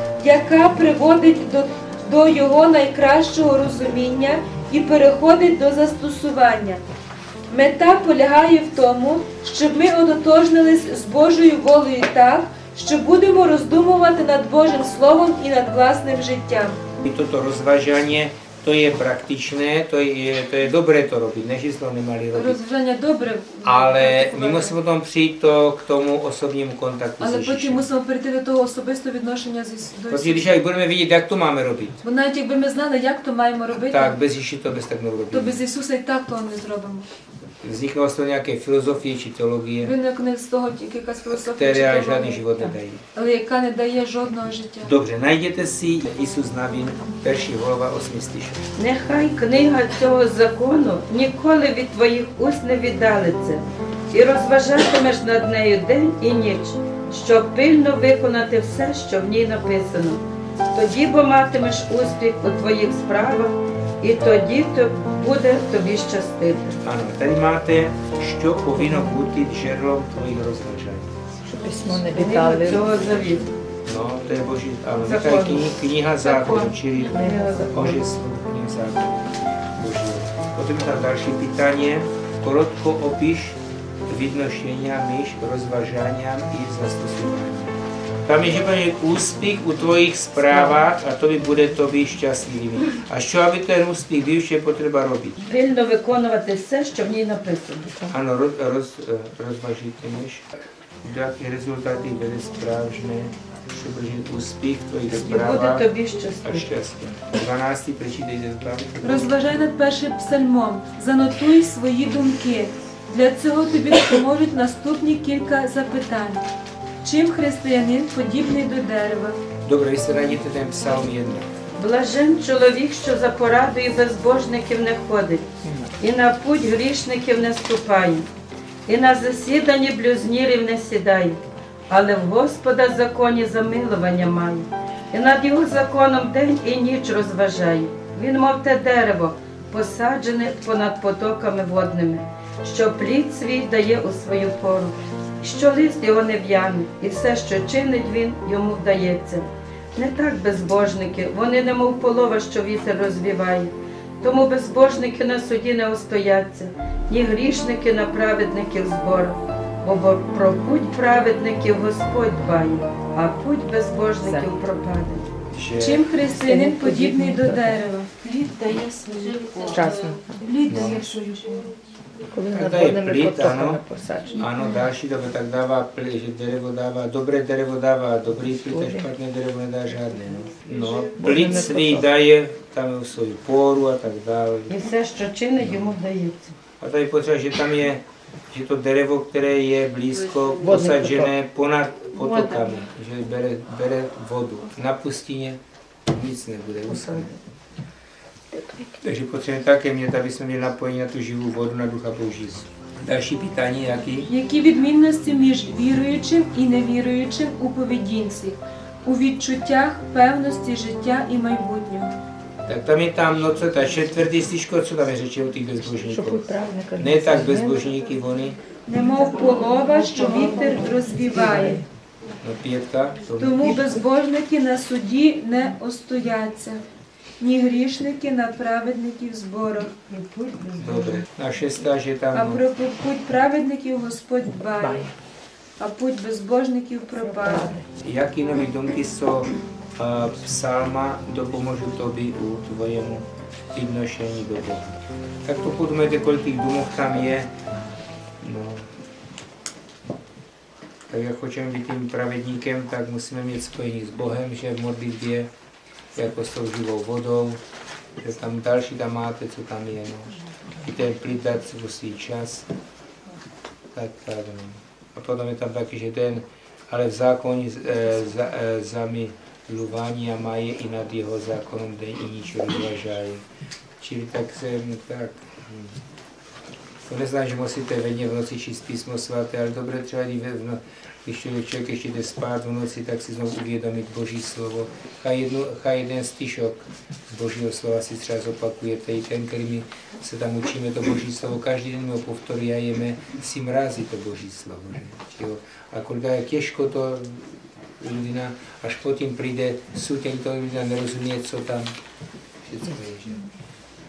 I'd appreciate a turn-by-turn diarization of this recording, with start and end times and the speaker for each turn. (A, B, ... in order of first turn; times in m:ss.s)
0:00.2-0:06.8 A
0:07.5-0:16.8 A
0:17.0-0:22.6 B
0:22.3-0:24.7 A
0:23.6-0:27.9 B
0:27.2-0:30.5 A
0:30.1-0:32.0 B
0:32.0-0:34.2 A
0:33.7-0:35.6 B
0:35.3-0:37.1 A
0:37.6-0:39.9 B
0:39.8-0:44.9 A
0:41.3-0:43.0 B
0:44.8-0:48.6 B
0:48.8-1:06.8 C
1:06.8-1:11.1 B
1:11.4-1:13.2 D
1:11.8-1:13.5 C
1:13.8-1:35.4 B
1:15.0-1:17.8 C
1:17.0-1:18.0 D
1:35.4-1:37.9 C
1:38.1-1:40.4 B
1:41.0-1:45.9 B
1:45.1-1:46.7 C
1:46.4-1:49.3 B
1:49.0-1:56.4 A
1:57.0-1:59.4 A
1:59.6-2:01.5 B
2:01.8-2:05.4 C
2:05.6-2:05.9 D
2:06.0-2:08.3 C
2:08.9-2:11.4 C
2:11.9-2:45.3 C
2:44.2-2:44.5 D
2:45.5-2:46.1 B
2:45.8-2:51.7 A
2:46.4-2:47.8 D
2:48.6-2:49.8 C
2:49.6-2:50.6 D
2:50.7-2:51.2 B
2:52.3-2:54.6 D
2:52.5-3:04.7 B
2:58.7-2:59.1 D
3:01.1-3:02.1 D
3:04.7-3:06.5 C
3:05.6-3:05.9 B
3:06.8-3:17.3 B
3:10.3-3:10.8 C
3:10.6-3:11.3 D
3:12.1-3:12.8 C
3:16.9-3:17.4 D
3:18.5-3:19.0 D
3:19.0-3:24.3 B
3:24.3-3:32.1 A
3:32.6-3:38.6 B
3:36.0-3:37.9 D
3:38.8-3:41.8 A
3:39.4-3:41.8 D
3:40.0-3:41.7 C
3:42.4-3:43.9 B
3:43.4-3:46.8 A
3:47.4-3:49.9 A
3:50.1-3:51.2 C
3:50.8-3:52.6 B
3:52.3-3:55.1 A
3:54.8-3:55.1 D
3:55.8-3:57.7 A
3:57.2-3:57.8 D
3:58.0-4:07.5 B
4:08.4-4:08.9 B
4:11.1-4:15.5 B
4:16.1-4:17.6 B
4:18.2-4:22.7 B
4:23.9-4:33.4 B
4:34.0-4:36.0 B
4:37.0-5:01.9 B
5:02.6-5:03.4 B